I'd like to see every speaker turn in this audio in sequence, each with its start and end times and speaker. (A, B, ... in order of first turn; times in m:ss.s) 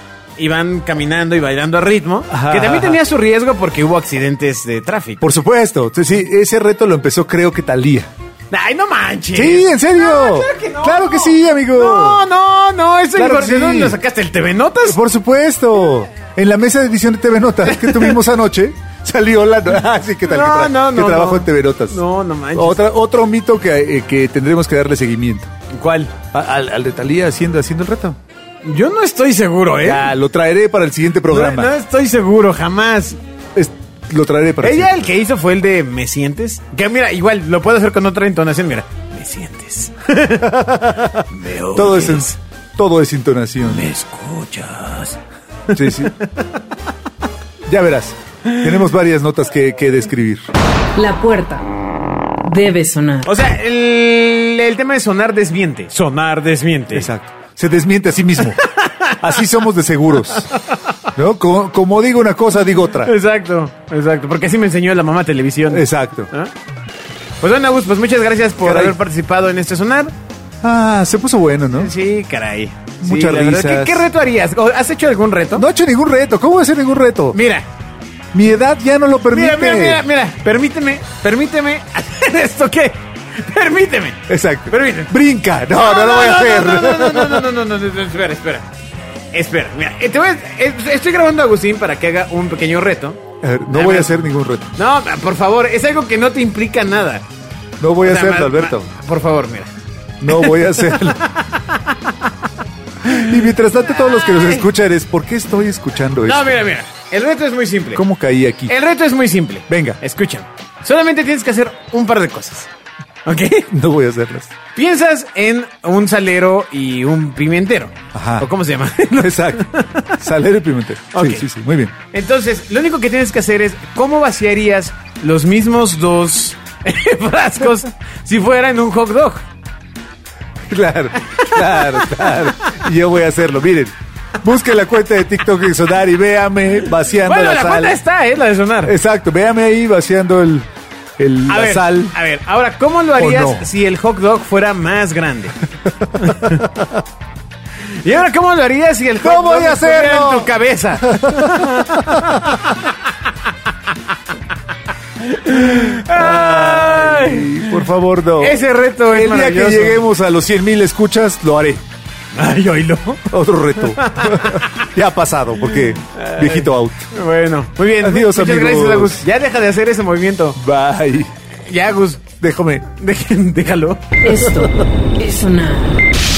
0:00.4-0:05.2 A
0:02.3-0:03.0 B
0:05.2-0:08.1 B
0:08.5-0:15.0 A
0:09.3-0:12.2 B
0:13.1-0:14.0 B
0:14.8-0:22.0 B
0:17.7-0:18.2 A
0:20.2-0:22.8 A
0:22.5-0:25.5 B
0:25.7-0:26.1 A
0:26.3-0:28.2 B
0:28.6-0:30.1 A
0:29.8-0:31.7 B
0:31.3-0:33.2 A
0:33.5-0:35.1 B
0:34.6-0:42.3 A
0:40.4-0:43.8 B
0:43.6-0:45.2 A
0:45.7-0:46.2 A
0:45.7-0:46.1 B
0:47.7-0:50.4 B
0:48.5-0:48.8 A
0:51.0-0:51.6 C
0:52.4-0:53.3 C
0:53.2-0:57.1 A
0:56.9-0:58.6 B
0:58.4-0:59.5 A
0:59.2-1:00.5 B
1:00.2-1:00.6 A
1:01.1-1:03.1 B
1:03.0-1:06.5 A
1:05.7-1:06.3 B
1:07.4-1:10.1 A
1:08.6-1:09.0 B
1:10.6-1:11.9 B
1:11.8-1:15.6 A
1:13.0-1:14.1 B
1:15.5-1:17.4 B
1:17.3-1:17.6 A
1:18.3-1:20.0 B
1:19.3-1:25.1 A
1:24.3-1:27.5 B
1:25.7-1:28.7 A
1:29.3-1:34.2 A
1:33.4-1:34.7 B
1:34.8-1:37.2 A
1:37.8-1:38.9 B
1:38.0-1:39.7 A
1:40.2-1:41.3 B
1:40.3-1:42.2 A
1:43.0-1:46.6 B
1:43.0-1:44.6 A
1:46.2-1:48.0 A
1:47.9-1:48.7 B
1:48.7-1:52.7 A
1:49.7-1:50.0 B
1:53.2-1:53.7 A
1:53.7-1:54.5 B
1:54.7-2:00.2 A
1:58.1-1:58.5 B
1:59.1-2:01.9 B
2:01.1-2:01.4 A
2:02.1-2:09.4 A
2:10.7-2:18.0 B
2:11.4-2:12.7 A
2:17.1-2:18.9 A
2:18.8-2:20.7 B
2:21.2-2:22.1 B
2:21.5-2:25.5 A
2:23.2-2:23.6 B
2:25.9-2:26.9 B
2:26.2-2:26.6 A
2:28.0-2:32.8 A
2:29.2-2:32.6 B
2:35.2-2:37.8 A
2:35.8-2:41.8 B
2:38.4-2:40.0 A
2:42.3-2:43.3 A
2:43.3-2:47.1 B
2:43.8-2:44.9 A
2:46.1-2:50.6 A
2:48.0-2:49.2 B
2:50.6-2:51.3 B
2:51.7-2:52.3 A
2:52.4-2:52.9 B
2:53.0-2:54.2 A
2:54.2-2:56.0 C
2:54.6-2:54.8 B